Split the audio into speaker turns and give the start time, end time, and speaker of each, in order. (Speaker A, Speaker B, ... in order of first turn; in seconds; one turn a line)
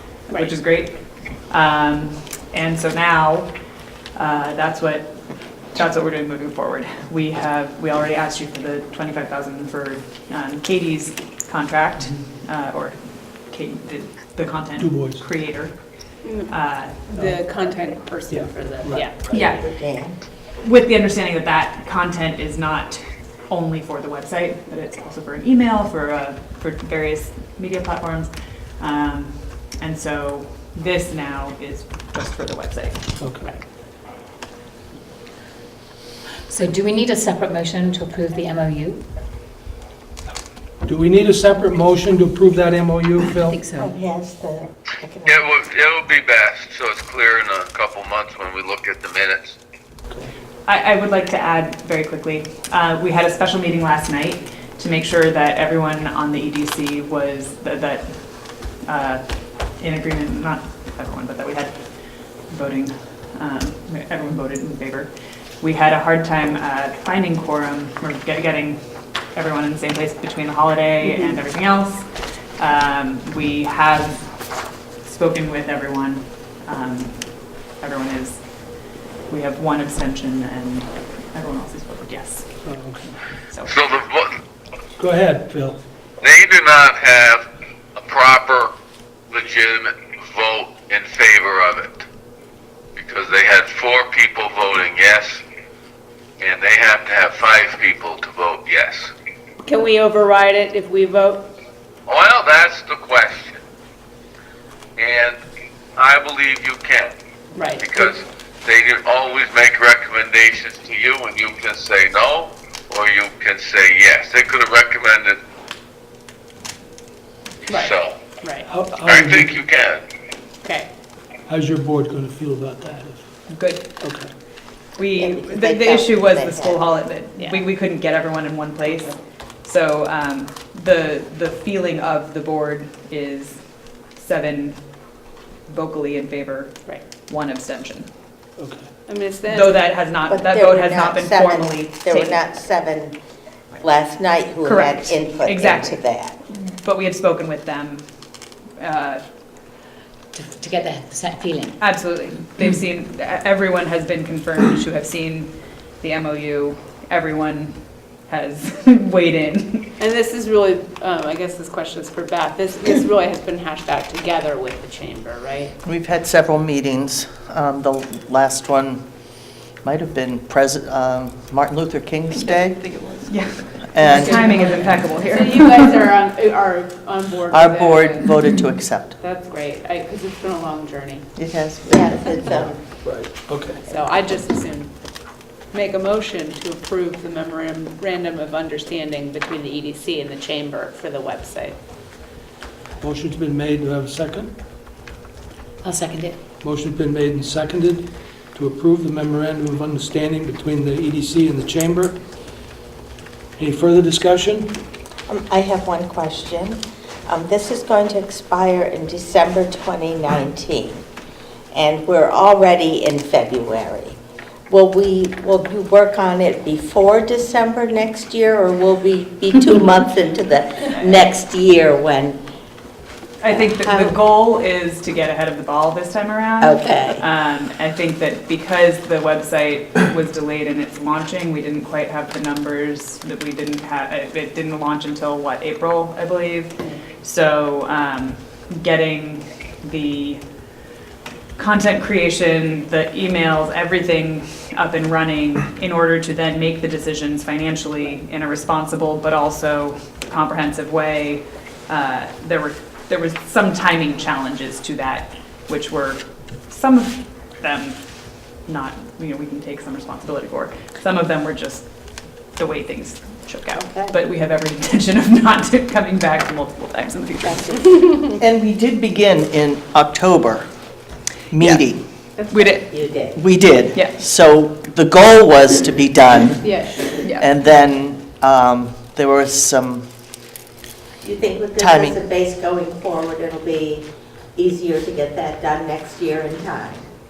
Speaker A: 0.2-17.0
Speaker B: 14.8-15.2
Speaker C: 16.2-19.3
Speaker B: 18.3-19.1
Speaker A: 19.2-33.0
Speaker D: 19.3-20.2
Speaker B: 33.2-33.5
Speaker E: 36.5-39.0
Speaker B: 40.8-43.6
Speaker E: 43.4-43.9
Speaker D: 43.7-45.5
Speaker F: 45.2-49.6
Speaker B: 50.1-50.4
Speaker A: 50.6-82.7
Speaker C: 71.0-71.3
Speaker B: 82.6-83.2
Speaker A: 83.4-83.7
Speaker F: 83.6-84.4
Speaker B: 85.0-85.8
Speaker F: 86.2-88.7
Speaker F: 89.3-92.0
Speaker F: 92.9-95.4
Speaker F: 96.4-99.1
Speaker C: 99.6-101.5
Speaker F: 102.0-103.6
Speaker F: 105.0-105.4
Speaker F: 106.0-107.1
Speaker C: 107.5-108.1
Speaker F: 107.8-115.4
Speaker C: 117.7-118.7
Speaker F: 117.7-118.2
Speaker B: 118.7-119.6
Speaker F: 119.0-120.0
Speaker C: 120.6-120.9
Speaker B: 121.5-124.3
Speaker A: 123.5-123.9
Speaker A: 125.0-138.1
Speaker D: 125.2-127.0
Speaker C: 127.3-127.7
Speaker B: 138.6-138.9
Speaker C: 139.1-139.9
Speaker A: 139.5-142.4
Speaker D: 140.3-143.2
Speaker D: 143.8-146.4
Speaker A: 144.6-148.0
Speaker A: 148.8-149.2
Speaker E: 150.3-152.2
Speaker A: 151.8-159.9
Speaker C: 160.0-165.7
Speaker G: 165.8-169.1
Speaker G: 169.8-173.2
Speaker A: 173.3-175.9
Speaker G: 173.8-174.7
Speaker C: 174.0-178.4
Speaker G: 177.5-179.2
Speaker C: 179.2-181.3
Speaker G: 181.3-182.2
Speaker D: 181.8-183.0
Speaker B: 183.0-183.8
Speaker C: 183.9-191.8
Speaker B: 193.0-194.5
Speaker E: 195.8-196.4
Speaker B: 196.6-202.2
Speaker B: 203.6-204.8
Speaker D: 205.3-211.0
Speaker D: 211.7-214.2
Speaker D: 214.7-222.4
Speaker A: 223.4-240.5
Speaker D: 223.5-224.2
Speaker D: 226.6-227.2
Speaker A: 241.6-267.6
Speaker D: 263.9-264.2
Speaker D: 267.4-268.3
Speaker G: 268.3-270.8
Speaker G: 271.5-272.1
Speaker C: 272.4-272.8
Speaker A: 272.5-273.2
Speaker D: 272.9-273.4
Speaker G: 273.3-280.1
Speaker A: 273.9-274.2
Speaker C: 276.6-277.2
Speaker A: 277.2-277.5
Speaker D: 281.2-287.0
Speaker G: 281.8-282.2